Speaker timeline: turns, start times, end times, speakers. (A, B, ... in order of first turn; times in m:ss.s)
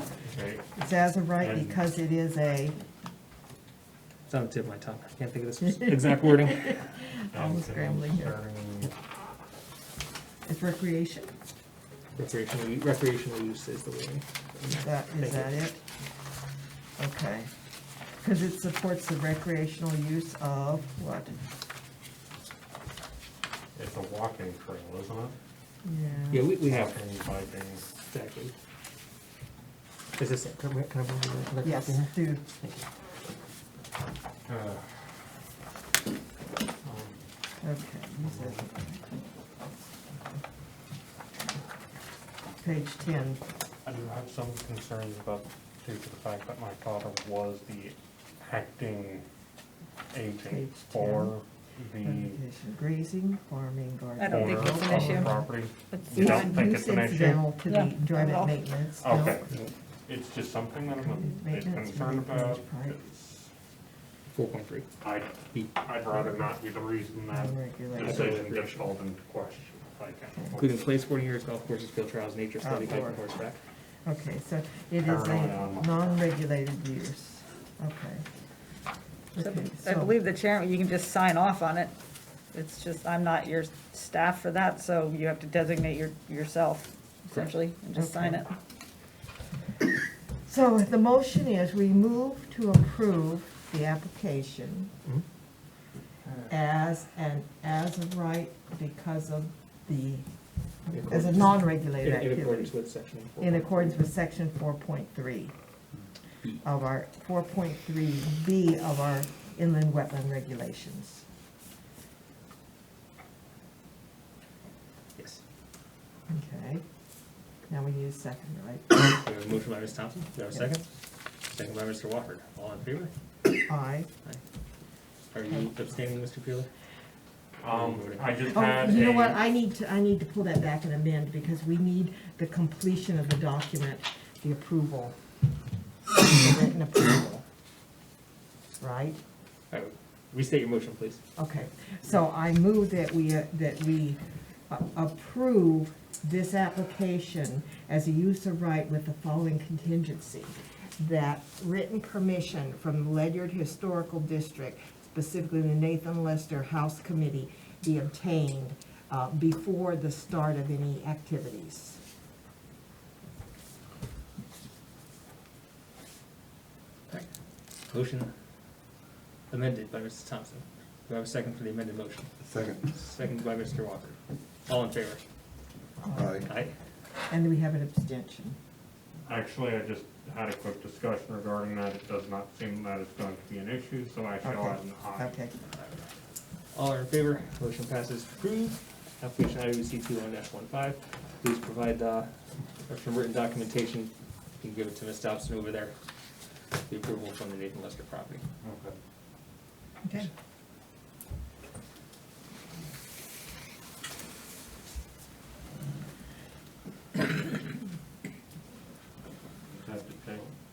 0:00.2-0:00.7 A
0:00.8-0:02.8 B
0:01.4-0:01.8 A
0:04.3-0:06.8 C
0:06.8-0:08.3 B
0:07.3-0:08.9 A
0:10.4-0:11.3 B
0:12.2-0:15.5 C
0:14.7-0:15.8 B
0:17.0-0:17.5 B
0:18.2-0:21.4 B
0:23.7-0:25.3 A
0:25.8-0:26.5 B
0:26.3-0:27.0 C
0:26.6-0:27.9 A
0:27.9-0:28.5 C
0:30.2-0:32.8 C
0:31.6-0:32.4 B
0:34.4-0:35.0 A
0:36.8-0:37.2 A
0:37.6-0:39.1 B
0:38.2-0:38.6 A
0:42.6-0:43.4 B
0:43.8-0:49.2 A
0:50.1-0:52.4 A
0:50.4-0:51.3 B
0:52.0-0:55.4 B
0:54.2-0:55.3 D
0:54.3-0:57.5 A
0:55.9-0:56.6 D
0:56.1-0:59.4 B
0:57.6-0:58.5 D
0:59.0-1:03.5 A
1:01.0-1:03.0 B
1:04.3-1:04.9 C
1:05.0-1:10.9 A
1:07.3-1:08.4 B
1:08.0-1:08.8 C
1:10.6-1:13.6 C
1:12.6-1:13.2 B
1:14.0-1:18.2 B
1:15.0-1:16.2 A
1:19.3-1:20.1 B
1:19.4-1:21.9 D
1:22.5-1:28.5 D
1:27.9-1:28.4 B
1:30.4-1:34.9 B
1:36.5-1:40.2 B
1:40.9-1:44.0 C
1:40.9-1:42.7 B
1:43.4-1:45.5 B
1:46.6-1:51.2 B
1:55.2-1:55.4 C
1:56.3-1:56.8 B
1:57.7-1:58.9 B
1:58.9-2:00.9 C
2:01.5-2:03.1 C
2:03.7-2:04.1 B
2:05.3-2:06.7 C
2:07.6-2:09.4 A
2:07.7-2:08.3 C
2:08.5-2:15.1 B
2:16.1-2:17.4 B
2:18.8-2:19.2 B
2:19.7-2:21.2 C
2:21.4-2:42.0 B
2:47.9-2:48.3 C
2:49.5-2:55.2 C
2:56.0-2:56.4 B
2:56.4-2:56.7 C
2:57.3-2:58.6 B
2:59.2-3:05.4 A
3:04.4-3:05.6 B
3:06.7-3:12.3 C
3:12.9-3:15.9 C
3:16.9-3:18.4 C
3:20.0-3:20.3 B
3:29.7-3:30.5 A